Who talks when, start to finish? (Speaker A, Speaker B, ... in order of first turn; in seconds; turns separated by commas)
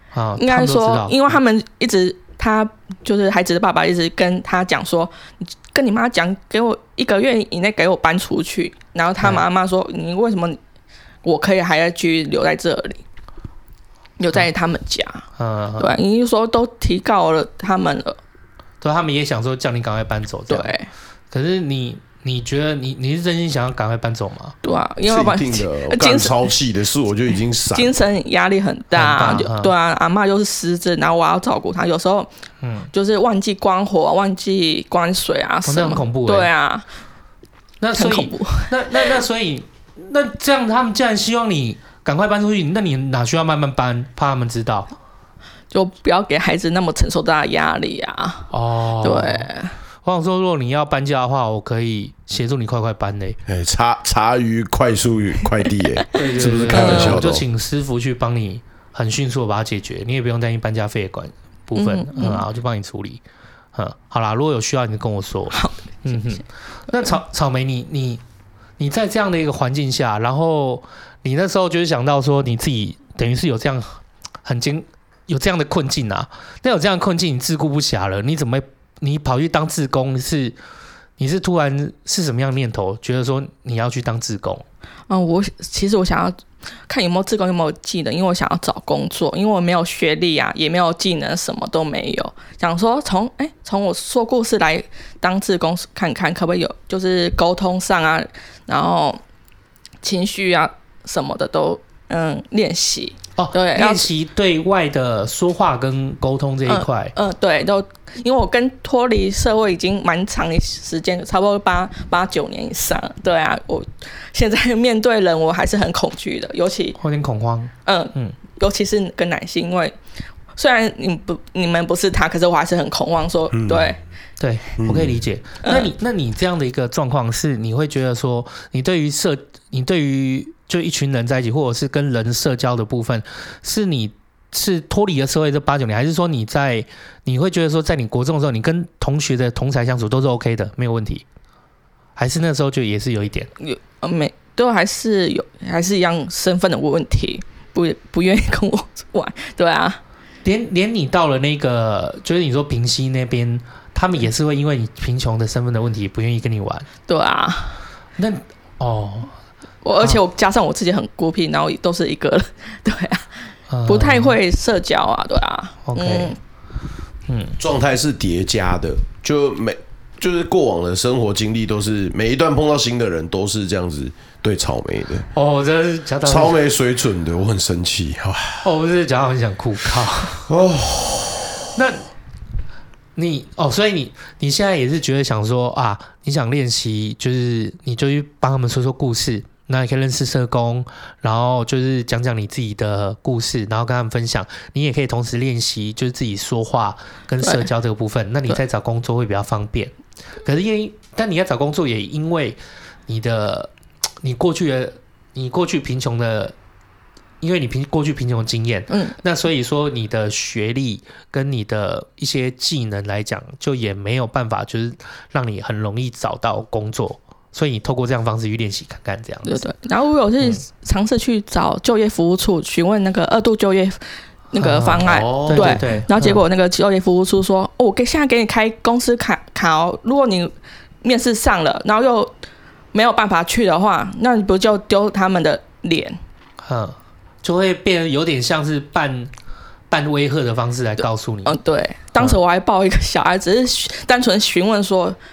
Speaker A: 0.1-1.4, Speaker B: 0.4-10.6, Speaker B: 11.2-13.0, Speaker B: 14.2-15.3, Speaker A: 15.4-15.9, Speaker B: 15.8-18.2, Speaker A: 18.8-20.7, Speaker B: 20.5-20.9, Speaker A: 21.3-24.5, Speaker B: 24.6-26.5, Speaker C: 25.1-27.9, Speaker B: 27.7-32.3, Speaker A: 28.9-29.7, Speaker A: 32.6-32.9, Speaker B: 32.9-36.9, Speaker A: 35.6-36.5, Speaker A: 37.8-44.9, Speaker B: 38.0-39.1, Speaker B: 45.7-49.7, Speaker A: 48.5-49.5, Speaker A: 50.0-53.4, Speaker C: 53.5-57.4, Speaker A: 56.1-63.2, Speaker B: 56.7-57.2, Speaker B: 61.8-62.4, Speaker A: 63.7-68.2, Speaker B: 65.5-66.4, Speaker A: 68.8-80.5, Speaker A: 81.2-84.6, Speaker B: 85.1-86.4, Speaker B: 86.9-99.2, Speaker B: 100.0-104.1, Speaker A: 103.4-107.1, Speaker B: 106.7-117.0, Speaker A: 117.0-118.3, Speaker B: 117.9-119.9, Speaker B: 120.5-124.0, Speaker C: 123.5-124.0, Speaker A: 124.4-141.2, Speaker C: 124.8-125.2, Speaker B: 125.6-125.9, Speaker A: 142.2-143.5, Speaker B: 143.6-150.0, Speaker A: 150.4-156.9, Speaker B: 157.1-157.8, Speaker A: 158.2-159.3, Speaker B: 159.8-163.3, Speaker A: 163.7-164.4, Speaker B: 163.9-166.4, Speaker A: 165.9-166.3, Speaker A: 167.3-167.6, Speaker C: 167.6-175.3, Speaker A: 175.3-176.6, Speaker C: 176.2-178.7, Speaker A: 178.6-180.5, Speaker C: 180.5-181.6, Speaker A: 181.7-182.0, Speaker A: 183.2-199.9, Speaker B: 197.4-197.7, Speaker A: 200.4-203.7, Speaker A: 204.2-206.5, Speaker A: 207.4-219.6, Speaker B: 208.9-209.2, Speaker B: 219.4-224.0, Speaker B: 224.5-232.3, Speaker A: 224.6-226.4, Speaker C: 225.0-225.8, Speaker B: 232.9-236.2, Speaker A: 236.6-239.3, Speaker A: 239.9-241.6, Speaker B: 241.4-245.2